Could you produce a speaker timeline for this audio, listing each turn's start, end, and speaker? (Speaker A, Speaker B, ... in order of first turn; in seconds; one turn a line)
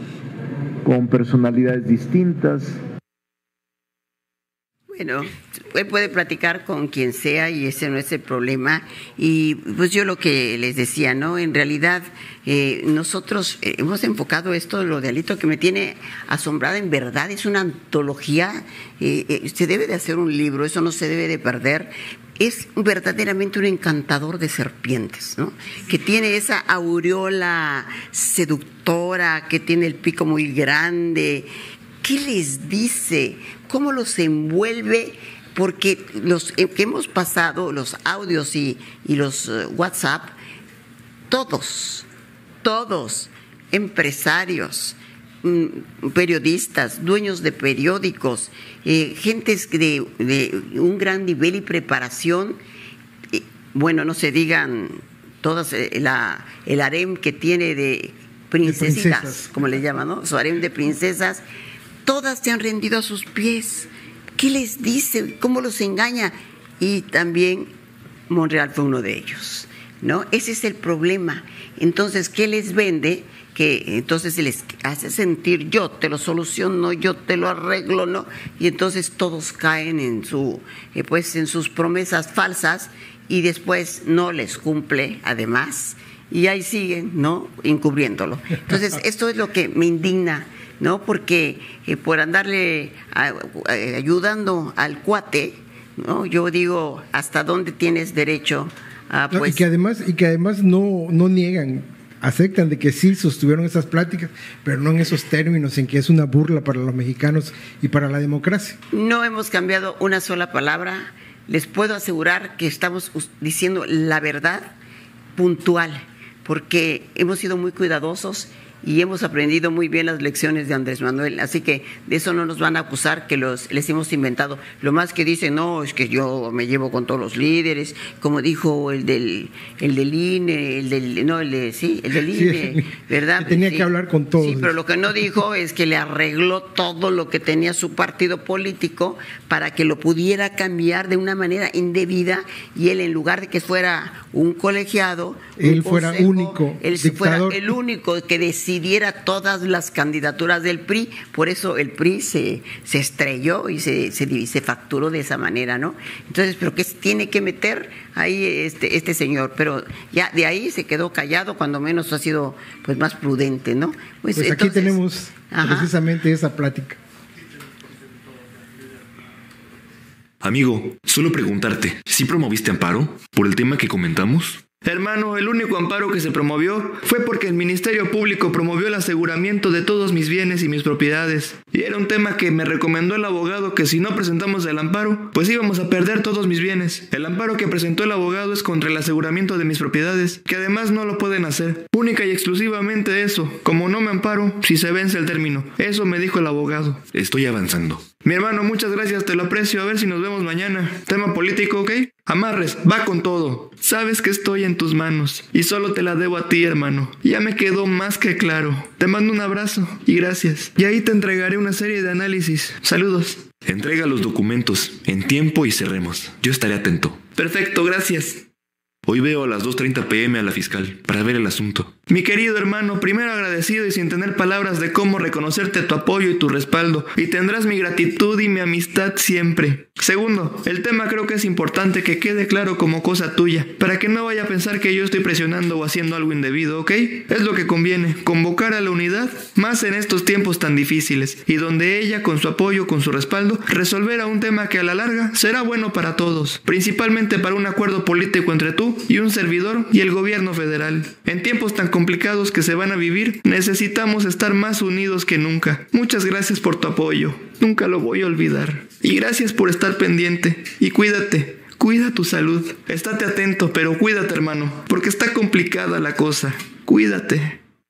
Speaker A: 0.8-2.8
Speaker B: 4.9-31.5
Speaker B: 32.0-40.3
Speaker B: 41.3-42.1
Speaker B: 42.6-52.6
Speaker B: 53.3-61.4
Speaker C: 58.6-59.5
Speaker B: 62.0-67.7
Speaker B: 68.3-99.6
Speaker C: 99.3-108.8
Speaker B: 108.9-114.7
Speaker B: 115.3-165.9
Speaker C: 132.3-134.8
Speaker C: 145.6-147.7
Speaker C: 164.3-167.0
Speaker D: 170.4-174.6
Speaker E: 174.8-197.0
Speaker D: 197.1-198.1
Speaker E: 198.2-213.4
Speaker D: 213.6-217.2
Speaker E: 217.3-218.4
Speaker D: 219.1-221.9
Speaker E: 222.1-267.6